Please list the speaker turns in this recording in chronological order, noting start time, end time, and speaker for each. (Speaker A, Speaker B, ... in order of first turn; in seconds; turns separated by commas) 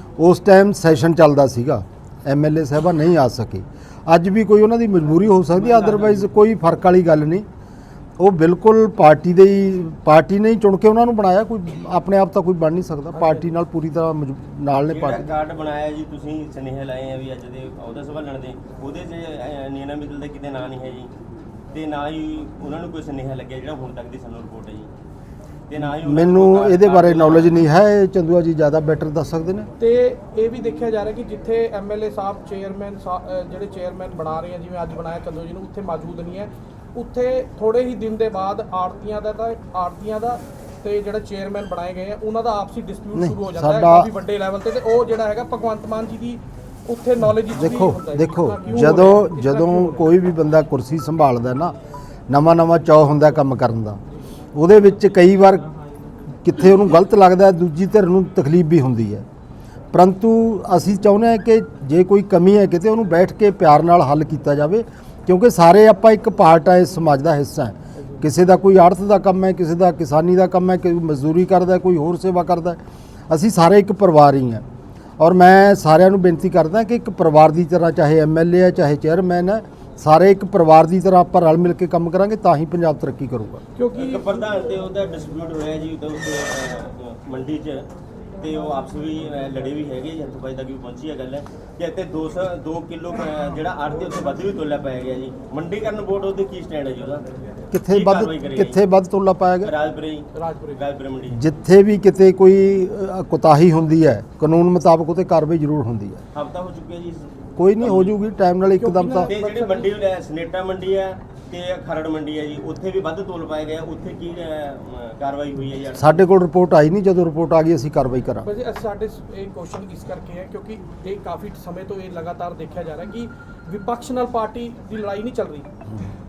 Speaker A: 0.2-7.5, Speaker B: 5.5-6.2, Speaker A: 8.2-15.3, Speaker B: 13.2-13.4, Speaker B: 14.8-21.1, Speaker B: 21.7-24.9, Speaker B: 25.7-27.6, Speaker A: 26.0-29.7, Speaker C: 29.8-50.0, Speaker A: 43.1-44.1, Speaker A: 47.5-51.7, Speaker A: 52.3-54.0, Speaker A: 54.5-55.7, Speaker A: 56.4-59.2, Speaker A: 59.9-74.6, Speaker A: 75.2-83.6, Speaker C: 83.8-84.2, Speaker B: 84.0-87.9, Speaker B: 88.4-97.2, Speaker A: 97.7-99.7, Speaker B: 97.9-98.8, Speaker B: 99.6-101.4, Speaker C: 100.3-100.8, Speaker A: 101.3-106.2, Speaker B: 106.3-108.2, Speaker A: 107.6-109.3, Speaker C: 108.7-110.0, Speaker B: 109.2-116.3, Speaker A: 115.9-118.5, Speaker C: 118.4-125.7